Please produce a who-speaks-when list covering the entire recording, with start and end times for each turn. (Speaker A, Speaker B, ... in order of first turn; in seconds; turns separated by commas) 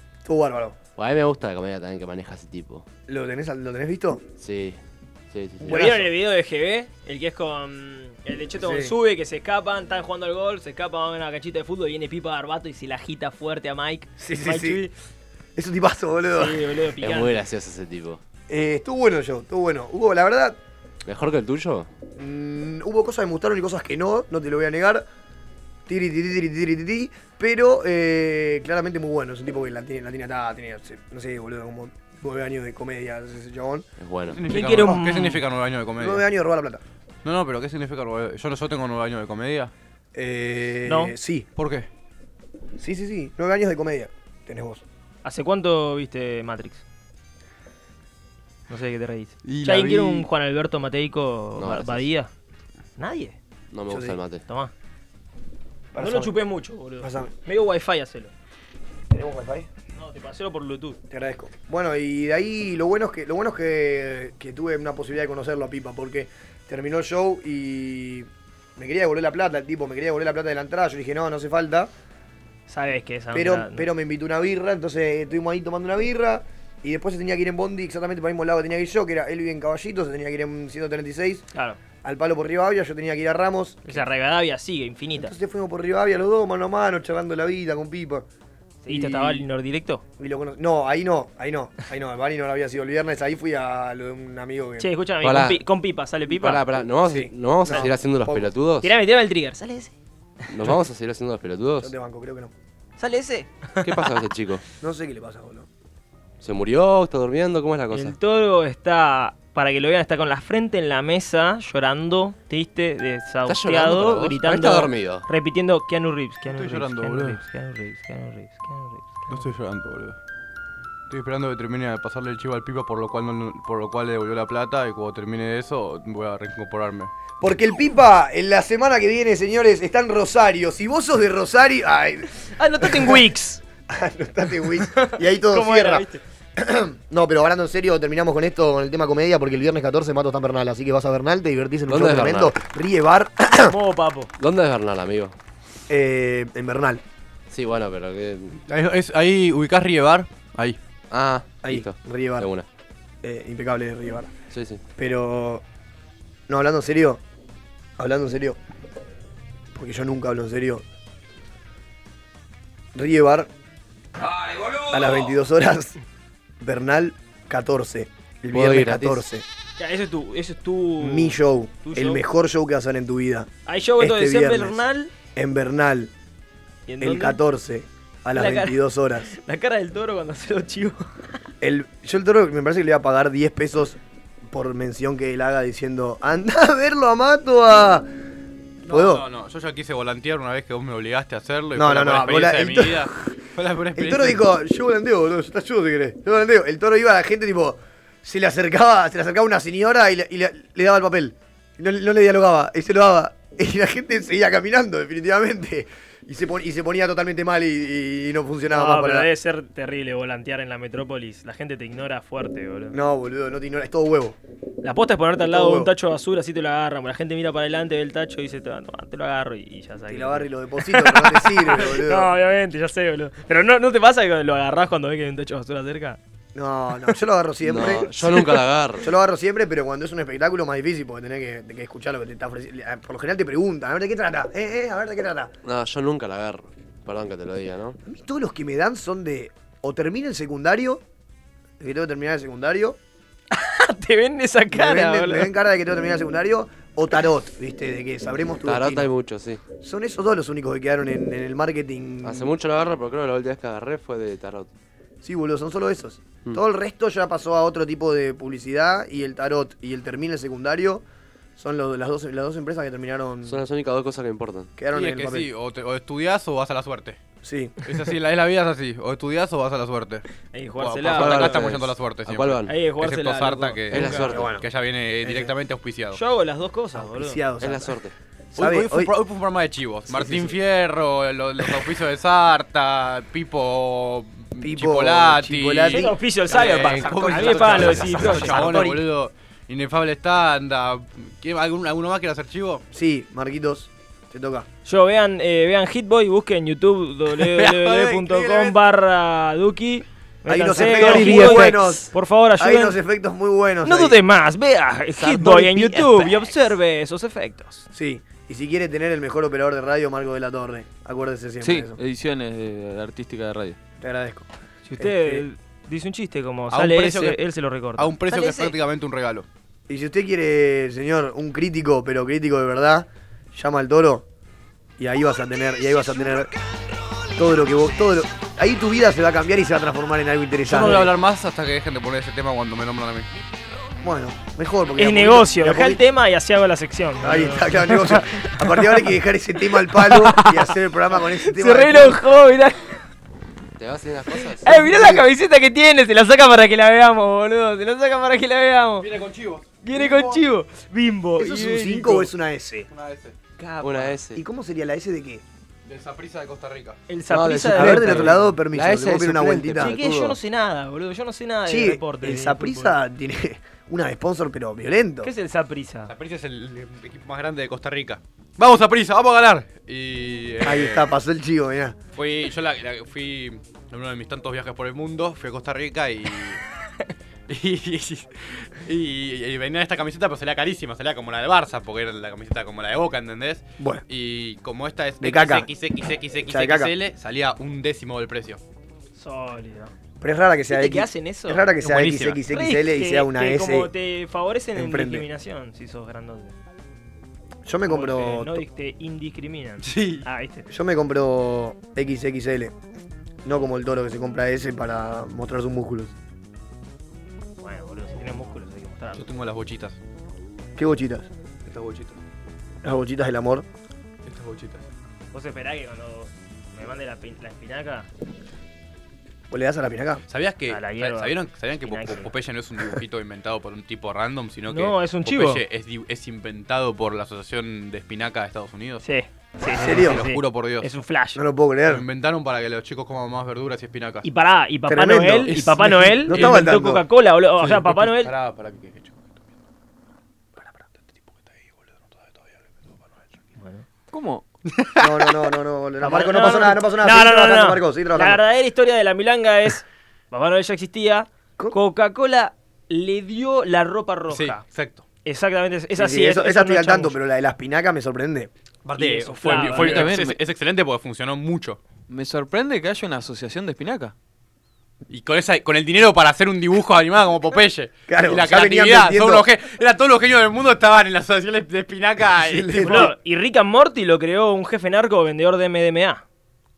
Speaker A: 0.2-0.8, Speaker B: 1.0-2.9, Speaker A: 3.1-4.2, Speaker B: 4.4-4.8, Speaker B: 5.3-5.8, Speaker A: 5.6-6.1, Speaker C: 5.6-14.9, Speaker A: 8.6-8.9, Speaker A: 14.2-14.8, Speaker A: 15.6-16.6, Speaker C: 16.3-17.4, Speaker B: 17.0-18.2, Speaker A: 18.5-20.6, Speaker B: 21.0-21.9, Speaker A: 22.1-25.1, Speaker A: 25.9-33.9, Speaker B: 34.0-34.4, Speaker D: 34.3-36.2, Speaker C: 34.5-35.4, Speaker A: 36.0-36.8, Speaker D: 37.2-39.7, Speaker A: 40.1-41.5, Speaker C: 40.9-41.1, Speaker D: 41.5-41.9, Speaker A: 42.8-44.8, Speaker C: 45.2-46.8, Speaker C: 48.7-52.3, Speaker D: 49.4-50.3, Speaker B: 51.5-52.0, Speaker C: 53.0-53.4, Speaker B: 53.7-54.4, Speaker A: 53.9-54.2, Speaker A: 55.9-56.3, Speaker C: 56.0-58.3, Speaker A: 57.0-57.3, Speaker A: 59.1-59.7, Speaker C: 59.9-61.0, Speaker A: 61.1-71.9, Speaker C: 72.7-73.9, Speaker A: 73.3-81.4, Speaker C: 81.5-81.8, Speaker A: 82.0-84.0, Speaker C: 83.8-85.3, Speaker A: 85.2-88.2, Speaker C: 88.8-90.0, Speaker A: 88.9-89.4, Speaker A: 90.2-94.9, Speaker C: 94.8-96.7, Speaker B: 95.2-95.6, Speaker B: 96.3-98.9, Speaker A: 97.0-98.5, Speaker C: 98.8-99.9, Speaker B: 100.5-101.9, Speaker A: 101.8-102.5, Speaker C: 103.0-104.0, Speaker B: 103.8-104.6, Speaker A: 104.8-105.7, Speaker B: 106.4-108.2, Speaker C: 107.9-119.5, Speaker B: 113.5-115.2, Speaker D: 116.5-117.4, Speaker D: 119.3-120.2, Speaker D: 121.1-127.1, Speaker A: 127.4-133.2, Speaker C: 132.6-133.6, Speaker A: 133.9-136.1, Speaker C: 134.8-136.2, Speaker A: 136.6-143.7, Speaker B: 141.9-142.6, Speaker C: 143.6-144.3, Speaker B: 144.4-145.3, Speaker A: 145.9-147.0, Speaker B: 147.5-148.6, Speaker D: 148.7-150.8, Speaker B: 151.1-152.7, Speaker A: 151.6-152.5, Speaker A: 153.2-154.3, Speaker B: 154.5-154.8, Speaker A: 155.0-155.6, Speaker A: 156.5-157.2, Speaker A: 158.0-158.6, Speaker A: 159.7-160.8, Speaker A: 162.9-163.5, Speaker A: 164.9-166.0, Speaker A: 166.6-169.4, Speaker B: 168.5-169.2, Speaker C: 169.8-172.2, Speaker A: 171.0-174.8, Speaker C: 173.7-175.1, Speaker A: 175.3-176.1, Speaker C: 176.9-177.4, Speaker A: 177.0-179.3, Speaker C: 178.3-181.1, Speaker A: 181.6-184.0, Speaker A: 184.5-188.1, Speaker A: 188.8-189.2, Speaker D: 188.9-194.5, Speaker A: 191.8-193.2, Speaker A: 194.0-209.3, Speaker C: 208.7-212.9, Speaker A: 212.9-214.4, Speaker C: 214.8-226.2, Speaker A: 215.5-215.9, Speaker A: 220.1-222.3, Speaker A: 226.5-235.5, Speaker B: 227.6-229.1, Speaker B: 235.6-238.0, Speaker A: 238.0-241.0, Speaker A: 241.8-243.0, Speaker C: 243.5-245.5, Speaker A: 244.7-249.1, Speaker B: 248.6-249.6, Speaker A: 249.8-252.5, Speaker B: 252.2-254.7, Speaker A: 255.2-261.0, Speaker A: 261.6-263.6, Speaker B: 263.4-264.7, Speaker A: 264.8-265.5, Speaker D: 264.9-267.2, Speaker A: 267.4-267.8, Speaker D: 267.8-270.2, Speaker C: 270.5-271.7, Speaker D: 270.8-276.2, Speaker B: 271.1-272.7, Speaker C: 272.6-274.3, Speaker B: 273.9-274.5, Speaker A: 274.3-274.6, Speaker A: 275.2-275.5, Speaker C: 276.1-277.4, Speaker A: 276.9-277.9, Speaker B: 277.6-278.1, Speaker D: 278.6-292.8, Speaker A: 278.6-279.1, Speaker A: 280.1-280.5, Speaker A: 284.6-289.0, Speaker C: 285.9-288.9, Speaker A: 292.9-294.6, Speaker C: 294.9-303.0, Speaker D: 297.3-298.8, Speaker A: 300.5-304.2, Speaker D: 300.7-301.7, Speaker C: 303.8-307.9, Speaker A: 305.5-305.9, Speaker A: 307.9-312.0, Speaker E: 311.6-313.8, Speaker A: 314.0-315.4, Speaker C: 314.9-318.7, Speaker D: 316.7-317.4, Speaker D: 318.0-319.4, Speaker A: 319.9-324.2, Speaker A: 325.0-326.5, Speaker A: 327.3-331.1, Speaker D: 330.7-333.3, Speaker A: 334.0-336.0, Speaker C: 335.0-339.0, Speaker A: 337.2-342.2, Speaker C: 339.9-343.0, Speaker B: 343.8-344.9, Speaker C: 344.4-349.1, Speaker A: 344.7-345.2, Speaker D: 349.0-350.4, Speaker C: 349.8-352.3, Speaker A: 351.4-352.9, Speaker D: 352.9-353.3, Speaker C: 353.6-354.2, Speaker B: 353.8-354.4, Speaker A: 354.3-355.4, Speaker D: 355.8-357.0, Speaker C: 357.1-358.4, Speaker B: 357.3-360.4, Speaker A: 357.7-359.9, Speaker C: 359.8-362.9, Speaker A: 361.7-365.3, Speaker C: 365.2-366.1, Speaker D: 366.1-371.1, Speaker A: 370.6-371.9, Speaker D: 372.1-376.6, Speaker D: 377.5-388.6, Speaker A: 385.2-385.7, Speaker A: 386.5-386.9, Speaker C: 389.1-389.9, Speaker A: 390.2-393.9, Speaker C: 390.7-396.5, Speaker D: 392.0-392.3, Speaker A: 394.7-395.3, Speaker A: 397.6-398.6, Speaker C: 397.9-400.7, Speaker D: 399.8-400.2, Speaker A: 400.7-402.7, Speaker A: 403.4-406.1, Speaker C: 407.6-409.3, Speaker D: 409.1-410.0, Speaker A: 410.8-411.3, Speaker D: 411.6-412.2, Speaker A: 412.8-413.6, Speaker D: 414.2-414.8, Speaker C: 415.3-418.1, Speaker A: 419.5-420.2, Speaker D: 420.3-429.0, Speaker C: 420.7-422.3, Speaker C: 424.7-425.6, Speaker C: 429.0-431.4, Speaker A: 429.7-430.2, Speaker D: 429.7-430.9, Speaker A: 431.3-432.0, Speaker D: 431.9-434.2, Speaker C: 434.2-438.3, Speaker A: 434.9-435.6, Speaker D: 435.5-436.6, Speaker A: 436.2-437.0, Speaker D: 437.6-439.2, Speaker C: 443.6-443.9, Speaker E: 444.1-444.4, Speaker D: 444.7-445.0, Speaker A: 445.0-448.4, Speaker C: 446.0-454.6, Speaker D: 454.3-455.0, Speaker C: 455.2-457.2, Speaker A: 455.9-460.0, Speaker C: 459.0-460.1, Speaker D: 459.4-461.8, Speaker E: 459.7-460.4, Speaker E: 462.1-464.1, Speaker D: 465.1-473.0, Speaker A: 468.1-469.4, Speaker A: 472.4-473.1, Speaker C: 472.8-476.2